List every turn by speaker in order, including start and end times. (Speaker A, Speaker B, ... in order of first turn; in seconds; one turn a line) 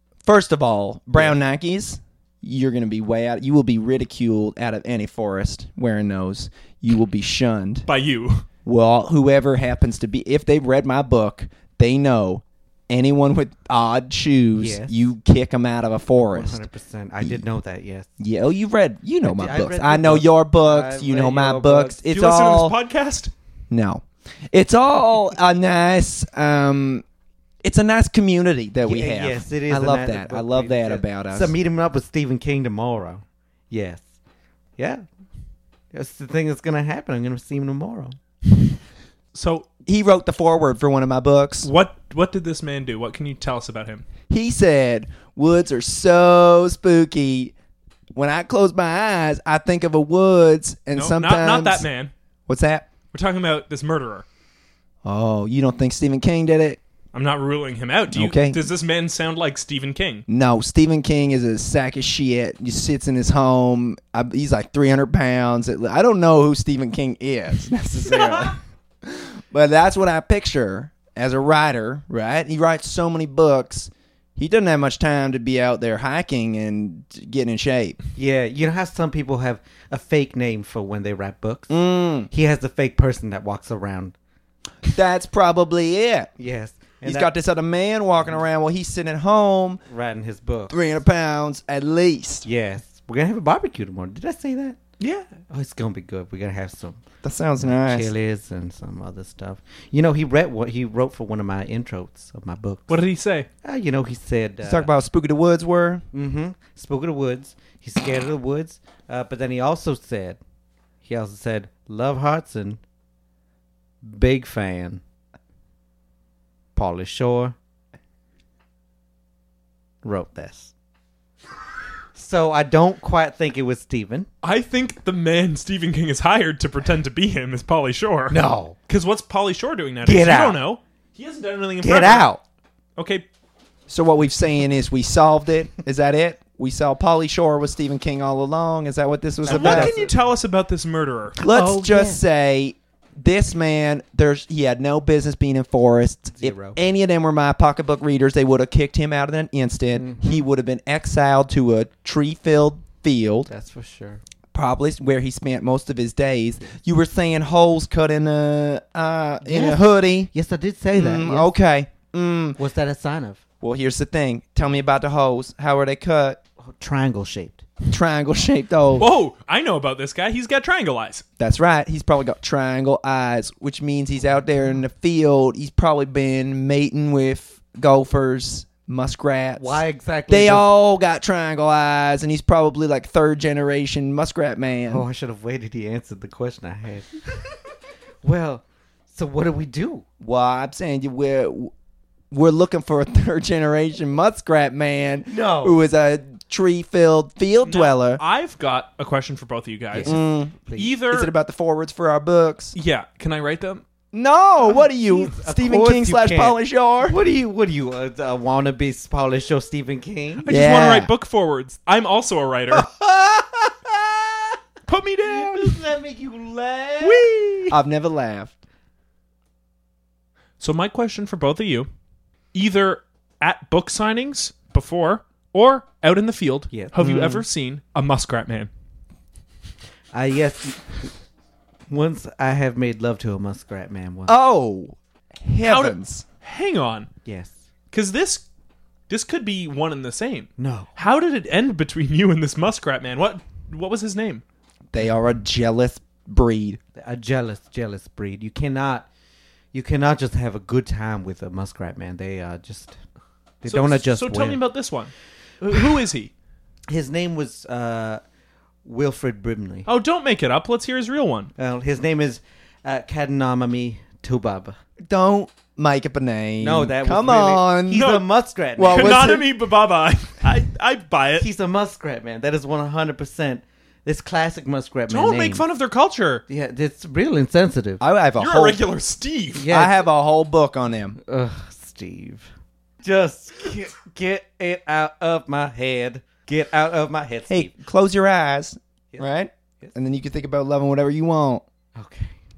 Speaker A: 0.2-7.9
Speaker B: 7.9-8.5
Speaker A: 8.7-16.6
Speaker C: 14.6-14.9
Speaker C: 16.3-18.1
Speaker A: 18.2-22.8
Speaker C: 19.2-22.0
Speaker B: 22.1-23.3
Speaker A: 23.7-27.0
Speaker A: 27.6-31.5
Speaker C: 28.9-34.0
Speaker C: 34.8-35.0
Speaker C: 35.9-38.2
Speaker B: 39.3-39.7
Speaker A: 39.9-41.7
Speaker B: 41.6-44.0
Speaker A: 44.3-47.5
Speaker A: 48.1-51.9
Speaker B: 50.9-52.1
Speaker A: 52.5-52.9
Speaker B: 53.1-54.3
Speaker A: 55.0-56.8
Speaker B: 57.1-60.3
Speaker A: 58.1-58.6
Speaker A: 60.3-78.0
Speaker B: 68.1-68.5
Speaker C: 78.2-84.1
Speaker A: 81.7-82.3
Speaker A: 84.9-86.3
Speaker C: 86.4-87.3
Speaker A: 87.0-89.8
Speaker C: 89.9-90.8
Speaker A: 90.7-92.5
Speaker C: 92.4-94.8
Speaker B: 95.0-95.3
Speaker C: 95.5-97.0
Speaker A: 97.2-98.1
Speaker C: 97.6-103.0
Speaker B: 102.9-103.5
Speaker C: 103.6-104.9
Speaker A: 104.6-106.0
Speaker C: 106.1-110.4
Speaker C: 111.0-112.8
Speaker C: 114.0-115.0
Speaker C: 116.8-117.6
Speaker C: 120.0-120.7
Speaker C: 122.2-124.3
Speaker B: 124.4-132.3
Speaker C: 128.3-128.8
Speaker C: 130.0-130.6
Speaker C: 131.8-132.4
Speaker B: 133.0-133.3
Speaker A: 133.9-139.9
Speaker C: 139.4-140.1
Speaker B: 139.5-141.4
Speaker C: 141.4-142.2
Speaker A: 141.4-153.5
Speaker C: 146.3-146.8
Speaker C: 149.9-150.4
Speaker C: 153.5-154.2
Speaker A: 154.5-160.3
Speaker C: 159.4-161.5
Speaker A: 160.9-162.6
Speaker C: 162.6-163.4
Speaker A: 163.6-166.4
Speaker C: 166.6-167.7
Speaker A: 167.9-169.1
Speaker B: 169.0-171.2
Speaker A: 171.4-185.1
Speaker C: 179.6-180.7
Speaker C: 184.9-187.6
Speaker C: 188.2-190.1
Speaker A: 190.2-191.7
Speaker A: 192.3-198.2
Speaker C: 195.3-195.8
Speaker B: 197.6-200.2
Speaker C: 199.9-200.9
Speaker A: 200.1-202.8
Speaker B: 200.7-201.3
Speaker B: 202.7-203.8
Speaker A: 204.1-207.2
Speaker C: 204.6-210.5
Speaker B: 210.4-212.9
Speaker A: 210.5-211.1
Speaker C: 212.7-214.6
Speaker B: 214.9-215.8
Speaker C: 215.2-217.3
Speaker B: 217.0-217.8
Speaker A: 217.7-218.6
Speaker B: 220.6-221.9
Speaker B: 222.5-228.7
Speaker C: 226.7-227.0
Speaker A: 227.0-227.4
Speaker C: 230.1-231.1
Speaker C: 231.9-234.3
Speaker A: 234.3-236.2
Speaker B: 235.6-237.1
Speaker C: 237.2-237.6
Speaker B: 237.9-238.4
Speaker B: 239.1-244.4
Speaker C: 240.6-240.9
Speaker A: 244.9-246.8
Speaker C: 246.9-249.1
Speaker C: 249.7-253.0
Speaker C: 253.6-254.6
Speaker B: 253.7-256.3
Speaker C: 256.9-258.2
Speaker C: 258.8-259.9
Speaker B: 259.9-261.5
Speaker C: 261.6-264.8
Speaker A: 265.1-268.2
Speaker C: 266.6-269.3
Speaker A: 268.8-269.5
Speaker B: 268.9-271.5
Speaker C: 271.4-275.6
Speaker B: 275.1-276.4
Speaker C: 276.5-278.0
Speaker A: 278.0-278.8
Speaker B: 278.4-279.7
Speaker C: 279.6-280.1
Speaker A: 279.7-281.2
Speaker C: 281.2-282.5
Speaker C: 283.0-287.7
Speaker A: 287.5-291.6
Speaker C: 289.1-289.9
Speaker C: 291.9-292.4